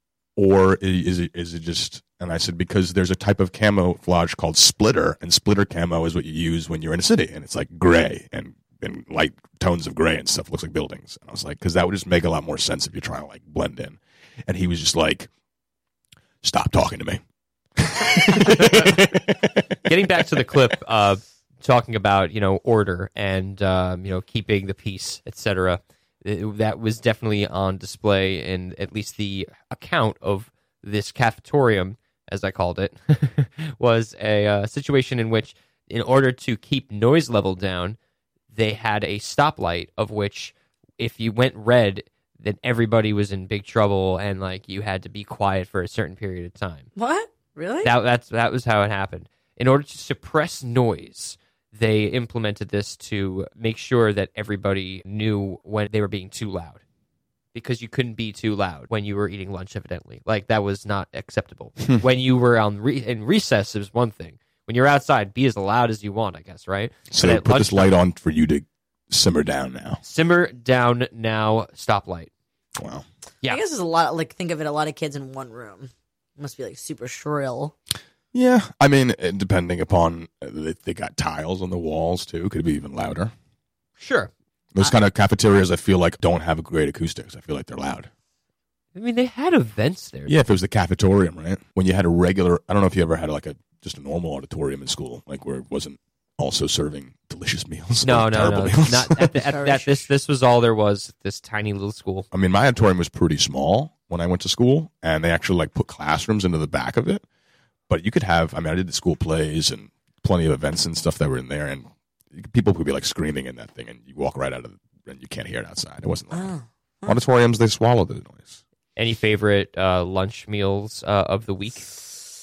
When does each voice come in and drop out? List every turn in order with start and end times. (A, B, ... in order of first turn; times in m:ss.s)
0:00.4-0:15.3 A
0:16.4-0:17.2 A
0:17.8-0:19.5 A
0:18.4-0:19.0 B
0:19.9-0:38.0 B
0:38.5-0:46.9 B
0:47.0-0:47.9 C
0:47.8-0:56.8 B
0:57.6-1:08.0 B
1:07.1-1:10.0 A
1:10.0-1:12.3 B
1:12.8-1:13.0 A
1:13.4-1:17.8 C
1:18.3-1:23.3 A
1:24.0-1:24.3 B
1:24.7-1:28.1 A
1:29.0-1:30.4 B
1:30.3-1:39.3 A
1:38.0-1:42.3 B
1:39.4-1:40.1 C
1:42.3-1:47.2 A
1:47.9-1:56.5 A
1:56.3-1:57.2 C
1:57.1-1:58.6 A
1:59.0-2:01.9 B